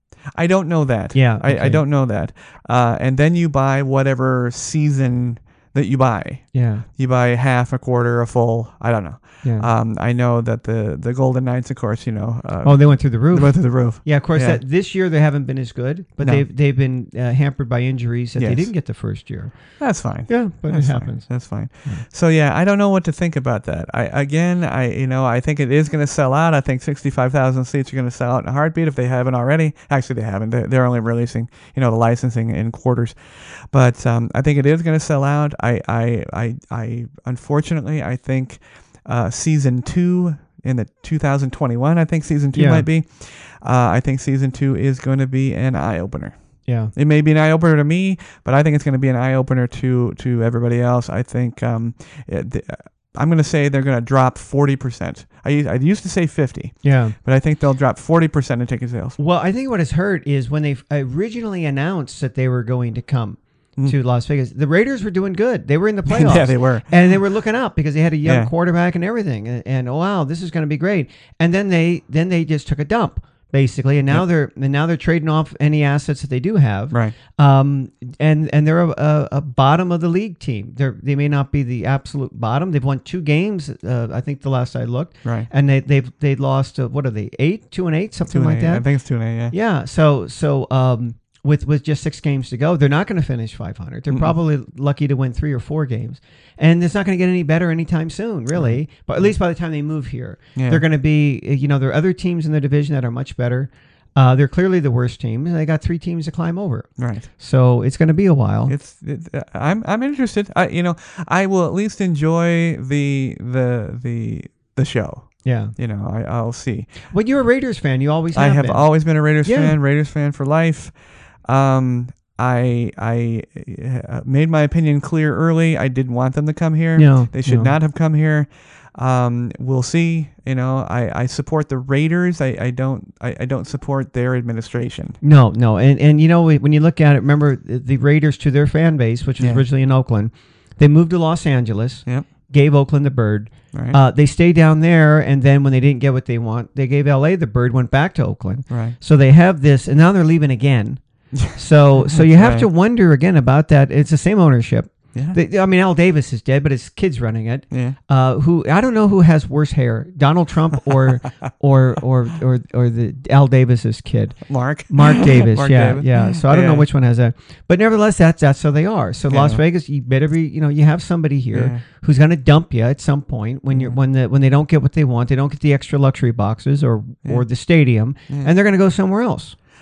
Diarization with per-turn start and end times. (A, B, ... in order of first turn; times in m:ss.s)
0:00.4-0:12.8 A
0:01.1-0:01.8 B
0:06.5-0:06.9 B
0:09.4-0:09.7 B
0:12.6-0:19.6 B
0:13.3-0:14.6 A
0:18.4-0:18.7 A
0:19.8-0:46.4 A
0:20.3-0:21.3 B
0:42.5-0:42.9 B
0:46.7-0:46.9 B
0:47.0-0:59.2 A
0:56.8-0:57.2 B
0:59.2-1:28.8 B
1:06.1-1:06.9 A
1:08.2-1:08.5 A
1:28.3-1:29.6 A
1:29.5-1:46.9 B
1:34.1-1:34.4 A
1:40.6-1:40.8 A
1:47.0-1:47.3 A
1:47.4-1:48.8 B
1:48.7-1:56.9 A
1:55.4-1:55.7 B
1:57.1-1:58.9 B
1:58.3-2:00.9 A
1:59.4-1:59.8 B
2:01.5-2:15.2 A
2:07.0-2:07.7 B
2:15.2-2:59.6 B
2:19.4-2:19.6 A
2:23.7-2:24.0 A
2:28.7-2:29.0 A
2:31.4-2:32.7 A
2:37.7-2:38.0 A
2:44.5-2:46.9 A
2:49.3-2:49.6 A
2:51.5-2:51.8 A
2:53.7-2:54.0 A